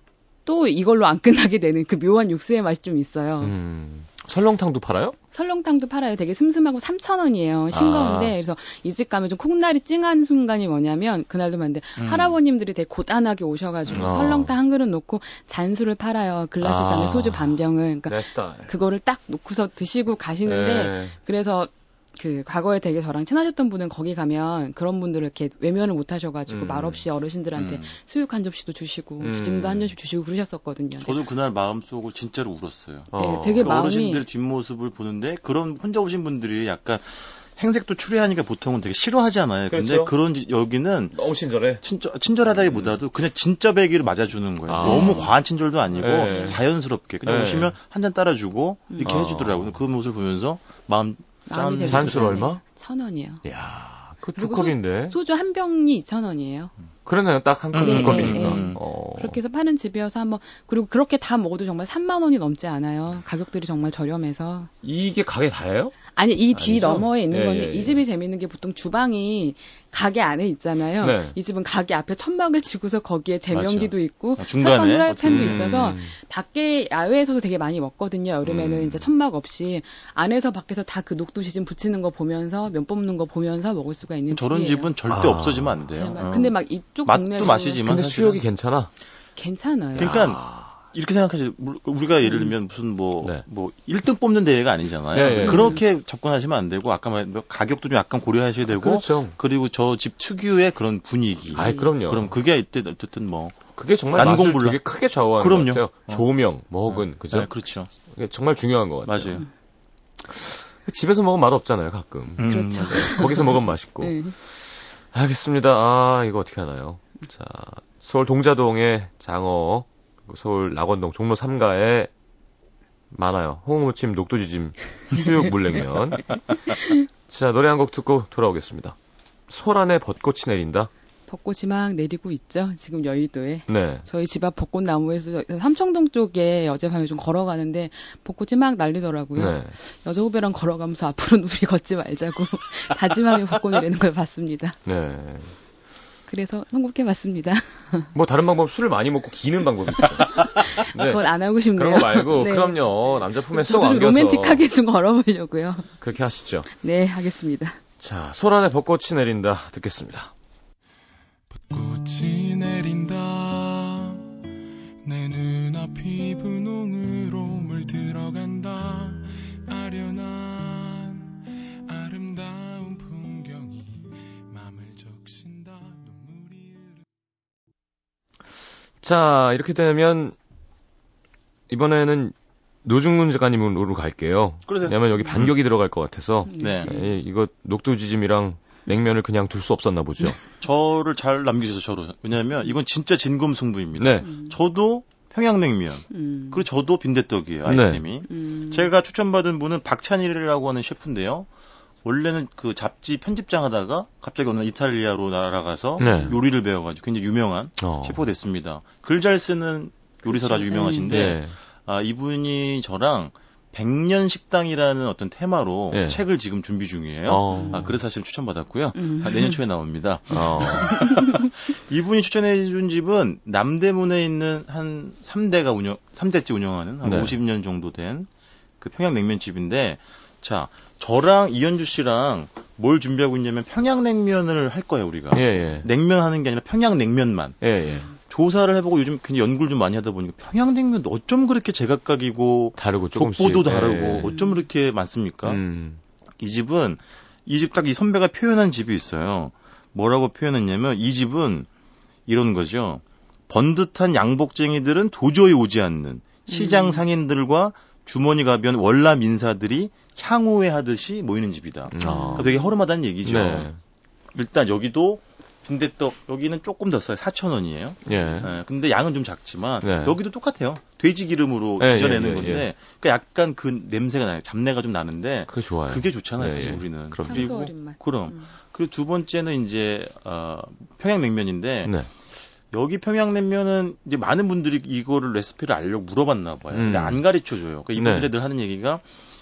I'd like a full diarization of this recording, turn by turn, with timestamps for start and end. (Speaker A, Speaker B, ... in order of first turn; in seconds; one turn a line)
Speaker A: 0.5-3.5
Speaker B: 3.4-5.2
Speaker A: 5.3-31.2
Speaker B: 7.7-8.3
Speaker C: 12.0-12.4
Speaker B: 13.9-14.5
Speaker B: 16.6-18.7
Speaker B: 20.4-21.1
Speaker B: 26.5-27.0
Speaker C: 27.6-27.9
Speaker B: 29.2-29.9
Speaker C: 31.0-41.2
Speaker B: 33.1-33.7
Speaker A: 33.2-34.2
Speaker B: 39.7-40.1
Speaker B: 41.1-41.8
Speaker C: 41.8-52.4
Speaker B: 42.7-43.0
Speaker B: 44.7-45.3
Speaker A: 44.8-45.3
Speaker B: 46.0-46.6
Speaker A: 46.2-46.6
Speaker B: 47.2-47.8
Speaker A: 48.9-49.2
Speaker B: 49.0-49.8
Speaker A: 51.5-53.4
Speaker B: 51.9-52.6
Speaker B: 53.5-55.2
Speaker A: 54.4-56.7
Speaker B: 57.1-59.4
Speaker C: 57.7-58.8
Speaker A: 57.8-64.7
Speaker B: 64.8-66.0
Speaker A: 66.1-84.9
Speaker B: 66.5-68.0
Speaker B: 71.0-71.3
Speaker C: 73.5-75.6
Speaker B: 75.2-76.2
Speaker B: 78.4-79.1
Speaker C: 84.3-88.4
Speaker B: 85.1-85.8
Speaker A: 85.9-87.8
Speaker B: 87.8-88.9
Speaker A: 89.4-90.2
Speaker B: 90.0-90.8
Speaker C: 90.0-104.8
Speaker B: 95.1-95.8
Speaker A: 95.4-95.8
Speaker B: 98.7-99.4
Speaker B: 101.5-102.4
Speaker A: 101.6-101.9
Speaker B: 103.8-107.5
Speaker C: 105.4-106.2
Speaker C: 106.9-107.9
Speaker B: 108.1-109.4
Speaker C: 109.1-109.4
Speaker B: 110.2-122.1
Speaker C: 112.4-113.4
Speaker A: 112.5-114.3
Speaker B: 123.1-126.4
Speaker B: 127.3-129.0
Speaker B: 129.5-130.9
Speaker A: 131.3-144.8
Speaker B: 133.7-134.1
Speaker B: 139.4-139.8
Speaker B: 144.9-145.5
Speaker A: 146.3-148.1
Speaker B: 148.1-151.2
Speaker A: 150.6-152.8
Speaker B: 151.8-154.7
Speaker A: 153.5-155.9
Speaker B: 156.0-156.7
Speaker A: 156.7-157.8
Speaker B: 158.0-160.3
Speaker D: 161.5-164.3
Speaker D: 165.0-177.0
Speaker B: 179.0-180.4
Speaker B: 181.7-190.4
Speaker C: 184.7-185.5
Speaker A: 186.5-187.1
Speaker C: 186.6-186.9
Speaker C: 190.6-201.5
Speaker B: 194.0-194.3
Speaker A: 194.2-194.6
Speaker A: 196.1-196.6
Speaker B: 197.7-198.1
Speaker A: 198.3-198.9
Speaker C: 202.0-228.3
Speaker B: 206.0-206.4
Speaker A: 206.0-206.4
Speaker B: 207.8-208.2
Speaker A: 210.2-211.3
Speaker B: 211.1-211.5
Speaker B: 215.9-216.2
Speaker B: 217.3-218.0
Speaker A: 217.5-217.9
Speaker A: 219.0-219.6
Speaker B: 220.3-221.1
Speaker A: 220.9-221.5
Speaker B: 227.0-227.4
Speaker C: 228.8-237.6
Speaker B: 235.3-235.9
Speaker B: 237.6-238.1
Speaker C: 238.1-245.6
Speaker B: 242.8-244.3
Speaker A: 244.2-244.6
Speaker B: 245.4-246.0
Speaker C: 246.4-251.7
Speaker C: 252.3-263.7
Speaker A: 256.5-257.0
Speaker B: 261.9-262.5
Speaker A: 262.0-262.7
Speaker B: 263.2-263.8
Speaker C: 264.3-281.9
Speaker B: 268.1-268.5
Speaker B: 269.8-270.2
Speaker B: 271.8-272.7
Speaker B: 275.5-277.5
Speaker A: 277.3-278.5
Speaker B: 281.8-282.1
Speaker C: 282.7-289.0
Speaker B: 286.7-287.2
Speaker B: 287.9-288.3